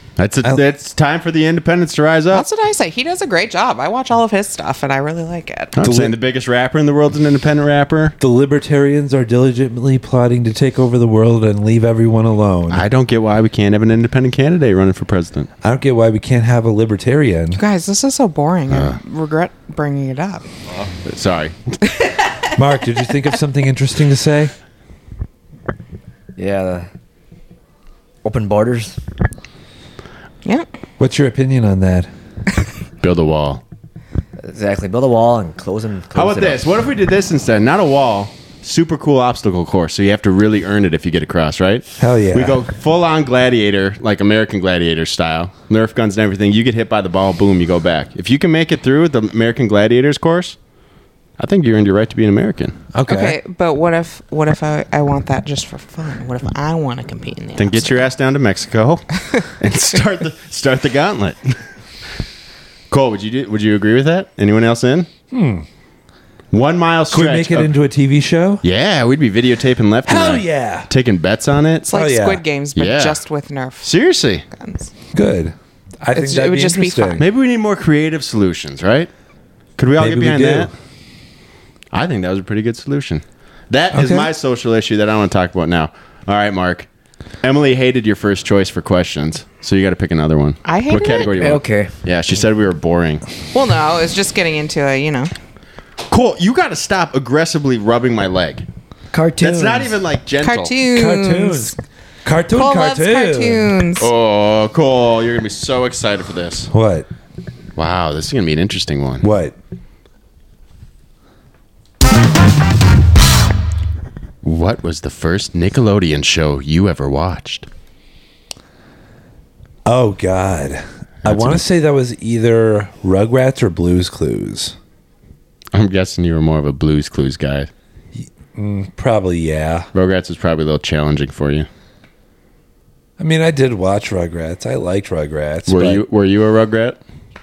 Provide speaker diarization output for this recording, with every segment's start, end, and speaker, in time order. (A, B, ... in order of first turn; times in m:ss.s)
0:00.2-0:02.4 A
0:02.3-0:05.8 B
0:05.8-0:08.1 A
0:05.8-0:06.1 C
0:08.2-0:12.8 C
0:12.7-0:15.5 A
0:15.6-0:17.6 C
0:17.5-0:20.4 B
0:18.7-0:19.0 A
0:20.9-0:21.8 A
0:22.5-0:24.5 C
0:26.4-0:26.9 D
0:28.2-0:29.0 D
0:31.0-0:32.1 C
0:33.0-0:33.6 A
0:34.4-0:36.6 D
0:36.1-0:50.6 A
0:42.0-0:42.6 C
0:51.4-0:52.8 A
0:52.9-0:53.4 C
0:53.1-0:58.0 B
0:57.6-1:01.6 A
1:02.9-1:05.1 A
1:05.3-1:05.6 C
1:06.5-1:07.7 A
1:07.1-1:08.6 C
1:08.6-1:11.9 A
1:10.0-1:10.9 C
1:11.9-1:13.9 B
1:11.9-1:12.4 C
1:12.8-1:13.2 A
1:13.8-1:14.4 A
1:14.5-1:14.9 B
1:15.1-1:17.2 C
1:16.1-1:17.2 B
1:17.2-1:19.1 A
1:19.8-1:20.7 A
1:20.0-1:20.7 C
1:21.9-1:26.9 A
1:23.9-1:24.3 C
1:27.4-1:33.2 A
1:30.6-1:31.3 B
1:31.3-1:31.9 D
1:33.5-1:35.3 B
1:36.1-1:38.6 A
1:39.1-1:40.0 D
1:39.4-1:40.7 A
1:40.4-1:41.8 B
1:40.9-1:43.7 C
1:42.5-1:44.1 B
1:44.0-1:46.7 A
1:46.7-1:47.1 C
1:47.8-1:49.3 A
1:49.2-1:49.5 C
1:54.4-1:57.7 A
1:59.8-2:04.8 C
2:01.2-2:01.6 A
2:05.7-2:07.7 A
2:08.1-2:09.9 C
2:09.9-2:11.7 A
2:13.2-2:16.0 C
2:15.7-2:17.0 A